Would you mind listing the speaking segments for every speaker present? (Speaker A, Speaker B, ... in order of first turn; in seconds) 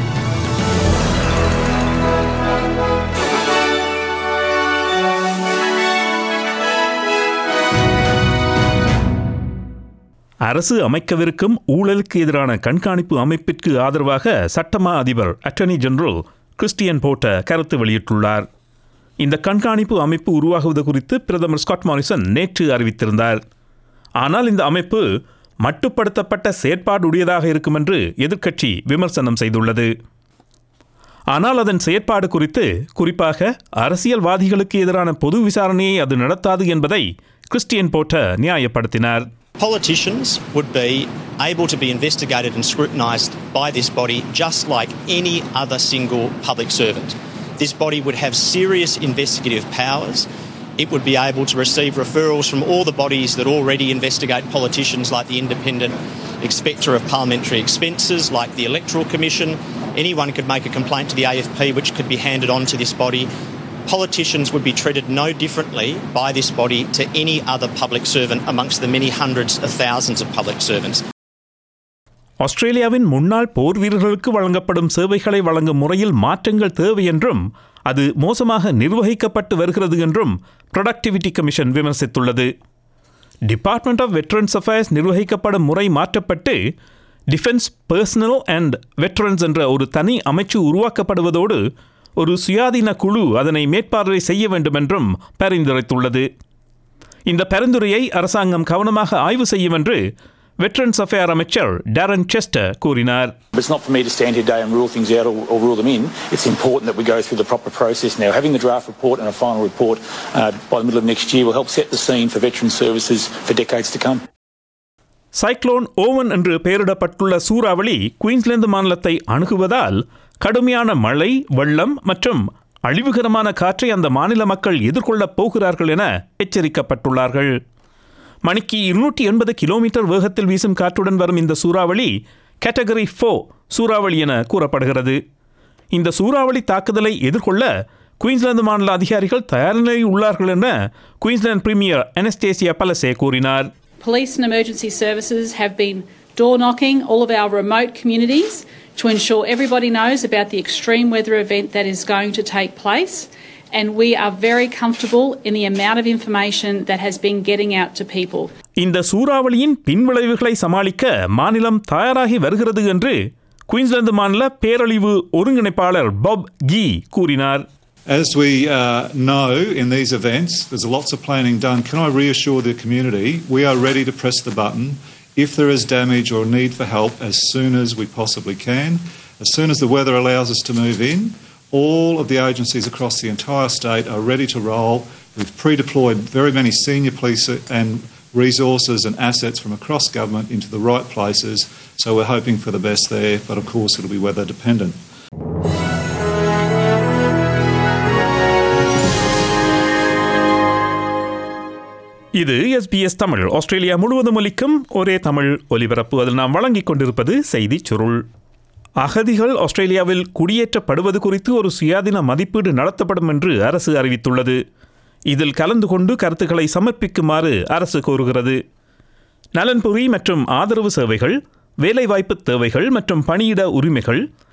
Speaker A: 10.4-18.4, 19.2-23.4, 24.2-25.0, 25.6-29.9, 31.3-39.2, 72.4-82.5, 83.5-86.6, 87.3-91.6, 92.2-96.3, 97.3-100.0, 100.6-103.3, 115.3-127.5, 128.4-135.2, 135.9-143.7, 158.8-163.2, 163.7-167.6, 202.3-208.2, 209.0-214.6, 215.3-218.6, 219.5-224.2
Speaker B: 39.6-63.3, 63.9-71.0
Speaker C: 103.5-114.2
Speaker D: 144.0-158.5
Speaker E: 168.1-195.0